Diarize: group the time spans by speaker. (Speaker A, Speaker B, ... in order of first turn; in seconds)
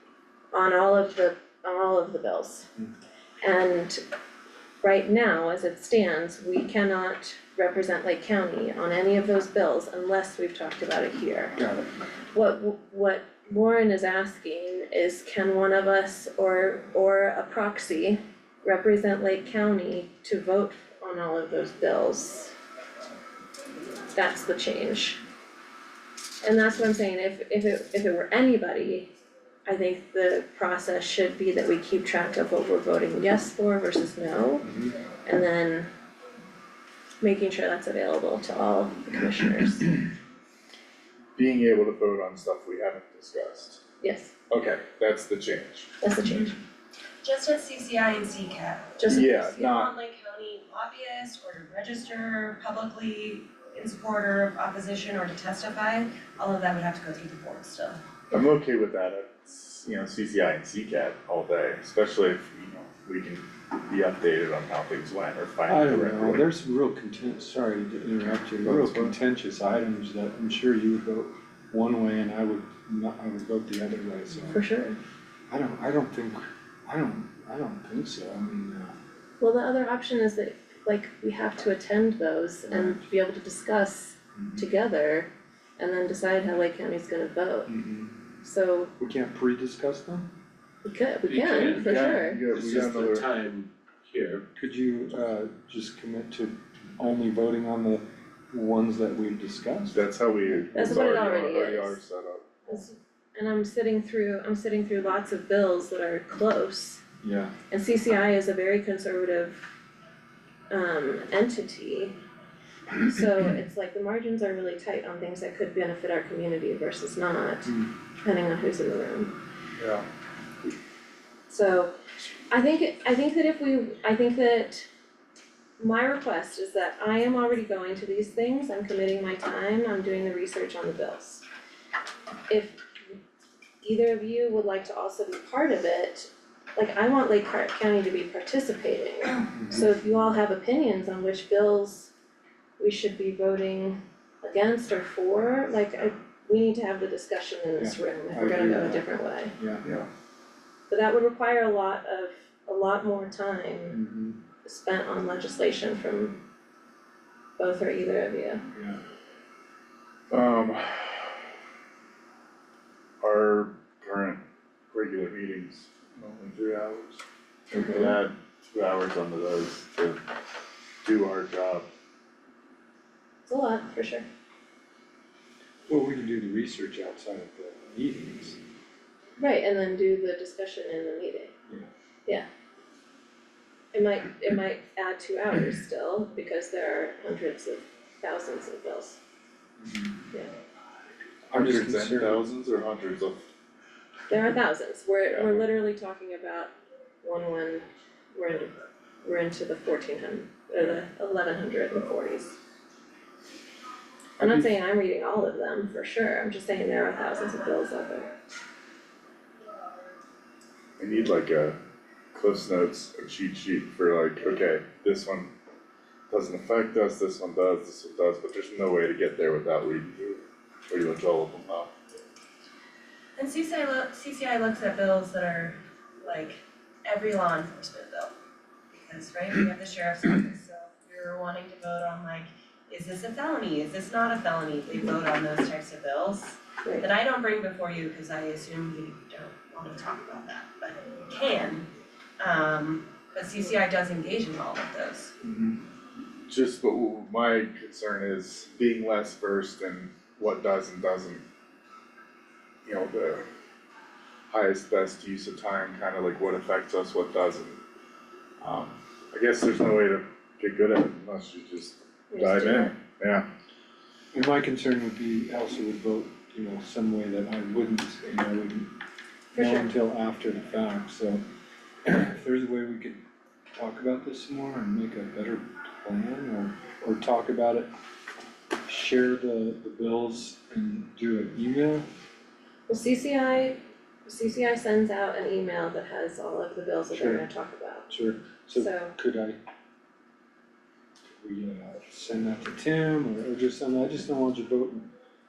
Speaker A: 0.5-2.7, 3.4-4.0, 4.8-11.6, 12.3-22.5, 24.1-25.2, 26.4-29.1, 29.6-34.7, 35.2-35.9, 37.2-40.0, 44.0-44.3, 46.0-46.6, 49.0-49.7, 74.5-75.0, 79.4-87.7, 88.4-88.9, 90.8-92.4, 100.7-102.0, 102.7-107.0, 107.7-109.7, 110.7-112.2, 112.9-119.3, 121.5-121.9, 122.5-124.9, 125.8-131.4, 132.5-132.8, 133.8-142.1, 142.8-149.5, 150.9-154.0, 154.6-156.4, 157.6-158.6, 167.7-168.1, 173.4-174.2, 179.4-181.5, 183.9-189.2, 194.3-202.6, 204.4-208.3, 262.3-262.9, 269.5-269.9, 282.9-288.1, 288.7-289.1
Speaker B: 11.6-11.9, 34.6-34.9, 65.7-74.6, 75.5-78.9, 82.7-83.0, 84.3-84.7, 87.7-88.2, 89.0-90.3, 94.5-101.1, 107.2-107.5, 139.6-139.8, 147.8-149.8, 153.9-154.4, 158.7-159.0, 175.9-178.6, 189.8-190.1, 191.5-192.4, 264.3-268.9, 269.5-271.4, 272.0-273.2, 273.7-277.9, 278.8-282.0, 287.1-287.4, 288.1-289.6, 291.4-295.1
Speaker C: 41.4-43.8, 44.5-45.9, 49.1-49.9, 58.3-66.5, 68.6-69.1, 91.7-93.4, 99.9-102.5, 119.8-120.0, 149.8-150.1, 160.3-161.4, 163.2-170.2, 171.0-171.8, 191.5-193.4, 195.3-195.6, 211.0-211.8, 212.3-215.5, 216.3-221.9, 245.4-245.8, 246.5-251.4, 252.8-253.4, 254.5-257.8, 258.6-263.5
Speaker D: 47.2-58.0, 223.4-228.3, 228.9-245.3
Speaker E: 91.3-91.9, 92.5-94.4